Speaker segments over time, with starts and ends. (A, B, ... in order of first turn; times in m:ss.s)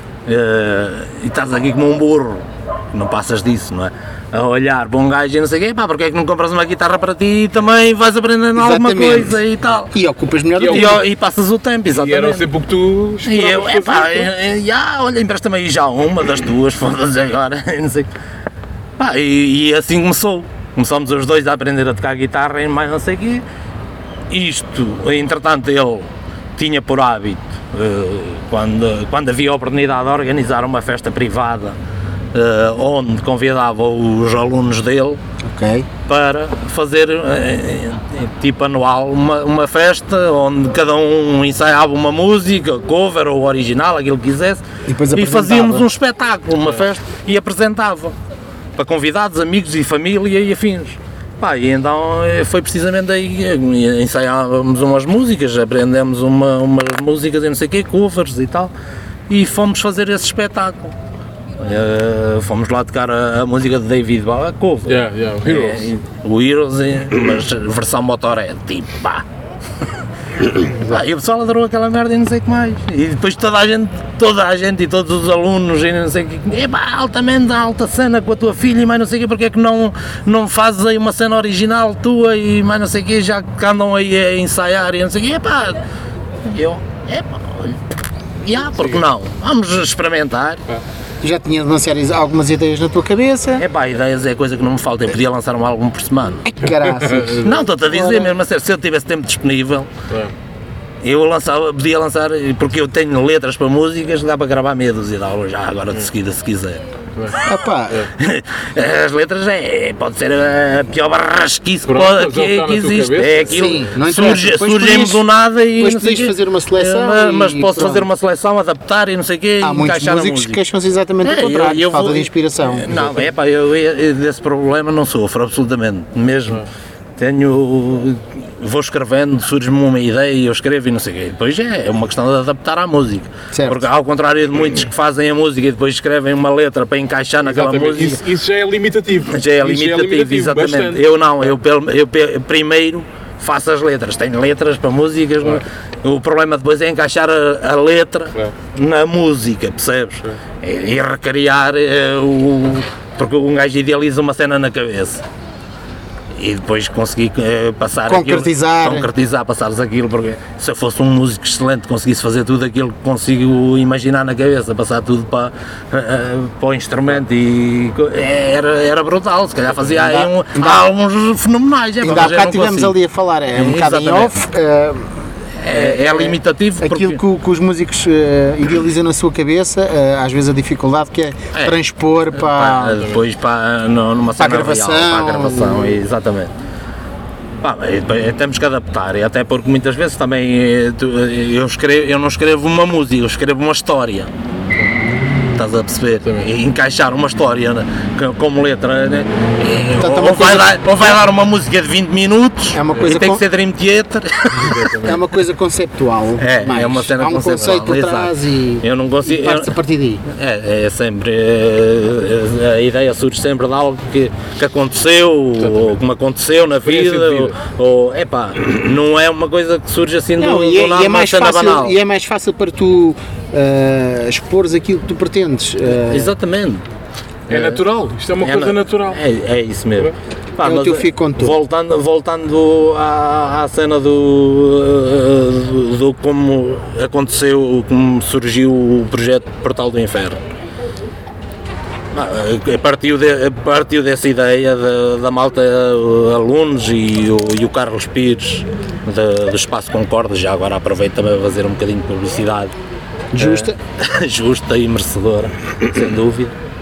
0:00.2-0:09.9 A
0:08.6-0:09.4 B
0:09.9-0:11.0 B
0:10.6-0:11.0 C
0:10.7-0:12.5 A
0:11.9-0:14.3 C
0:13.2-0:18.1 A
0:19.0-0:23.4 A
0:24.3-0:31.8 A
0:32.3-0:35.2 A
0:35.4-0:35.9 B
0:36.1-0:48.2 A
0:44.9-0:45.9 B
0:48.8-0:58.7 A
0:59.3-1:01.0 A
1:01.6-1:09.2 A
1:04.9-1:05.9 C
1:10.3-1:25.8 A
1:26.4-1:27.8 A
1:28.4-1:30.6 A
1:31.2-1:33.6 B
1:33.6-1:36.4 A
1:36.4-1:38.3 B
1:36.9-1:37.3 C
1:37.3-1:39.9 A
1:41.0-1:46.8 A
1:47.4-1:48.1 B
1:48.2-2:00.6 A
1:51.8-1:53.7 C
1:53.5-1:55.2 B
1:55.8-1:58.0 B
1:59.6-2:02.9 B
2:01.2-2:18.2 A
2:13.5-2:13.8 B
2:17.4-2:21.0 C
2:19.2-2:35.2 A
2:36.3-2:53.0 A
2:38.0-2:39.1 B
2:50.0-2:50.8 B
2:52.0-3:03.1 B
2:53.5-2:54.4 A
2:55.6-2:57.2 A
3:02.3-3:06.5 A
3:04.4-3:06.0 B
3:07.6-3:14.3 A
3:15.6-3:24.9 A
3:16.2-3:16.5 C
3:20.0-3:21.2 B
3:22.7-3:23.4 B
3:24.5-3:25.2 C
3:25.0-3:30.2 B
3:26.4-3:29.7 A
3:30.2-3:42.0 A
3:35.6-3:35.9 C
3:36.8-3:37.6 C
3:40.4-3:46.3 B
3:45.9-3:46.8 A
3:47.5-3:47.8 A
3:47.5-3:49.2 C
3:48.4-4:00.4 A
3:50.6-3:51.6 B
4:02.1-4:12.7 A
4:13.3-4:13.8 B
4:13.4-4:16.5 A